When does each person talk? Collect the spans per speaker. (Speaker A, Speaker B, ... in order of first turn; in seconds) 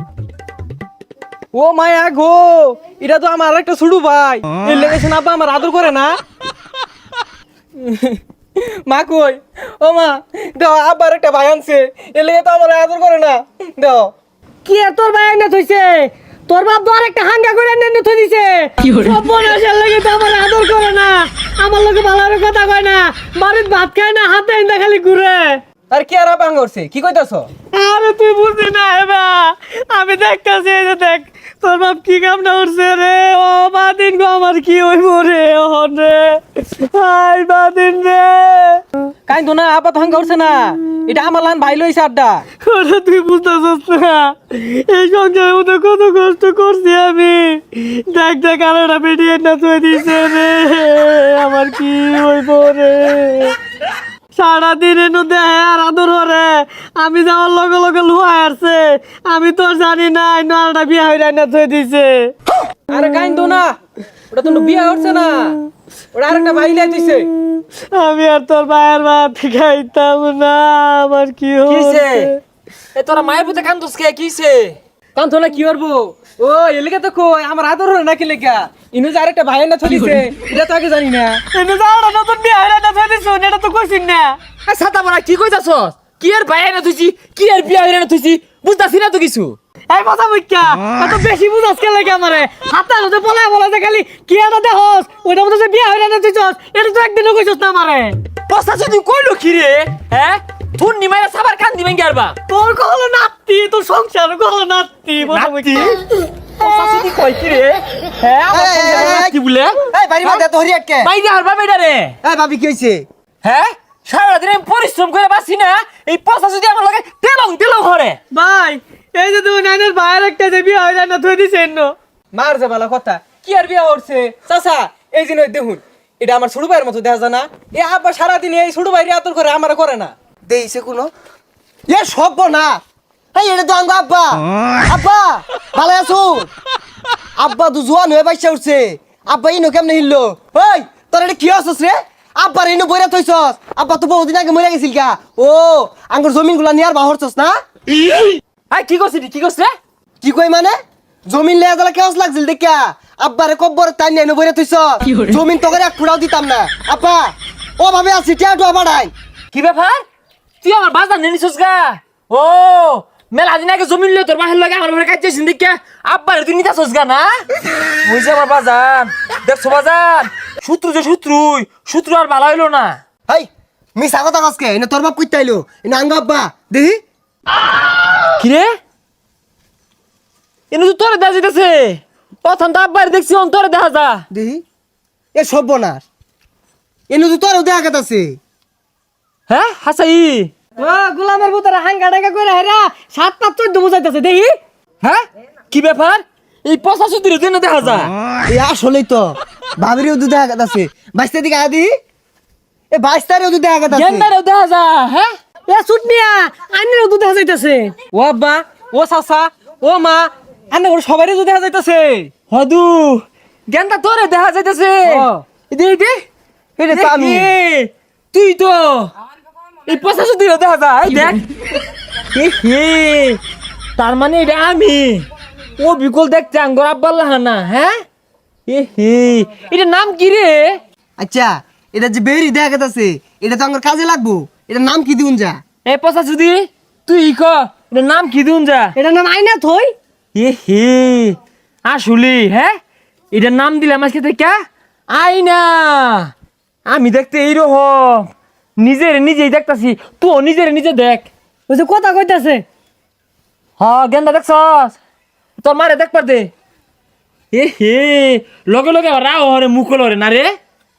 Speaker A: 1.5-6.1, 7.8-14.1, 25.9-27.5, 39.3-42.4, 62.9-63.8, 64.3-65.6, 66.1-67.3, 75.1-81.4, 122.3-130.1, 208.1-212.3, 215.1-215.4
Speaker B: 14.6-25.6, 27.7-38.8, 42.6-53.6, 54.3-62.3, 64.9-65.2, 67.4-72.4, 81.5-84.4, 89.9-98.2, 102.5-106.0, 106.6-107.1, 118.3-121.9, 190.8-194.5, 205.7-207.9, 238.9-239.9, 251.7-252.6
Speaker C: 71.7-72.3, 72.9-74.8, 84.7-89.6, 98.5-102.4, 105.2-110.4, 111.0-112.2, 113.4-118.2, 148.1-149.7, 159.5-160.0, 160.6-167.4, 168.0-173.0, 178.3-178.7, 180.7-184.2, 189.5-190.5, 195.0-198.1, 203.9-205.3, 212.5-216.2, 216.9-219.1, 219.9-221.5, 222.3-223.4, 224.0-227.9, 228.7-230.8, 235.8-238.9, 240.3-242.7, 243.3-244.6, 245.1-246.3, 246.9-251.3, 253.8-255.0, 255.6-256.5, 257.5-260.5
Speaker D: 108.5-109.3, 109.9-111.1, 112.2-113.0, 130.5-131.1, 131.9-132.8, 133.3-136.5, 137.4-147.6, 150.2-150.8, 151.3-159.1, 173.3-177.0, 184.3-184.6, 185.3-186.0, 187.1-188.4, 198.4-201.9, 202.9-204.3, 216.8-217.5, 231.2-235.6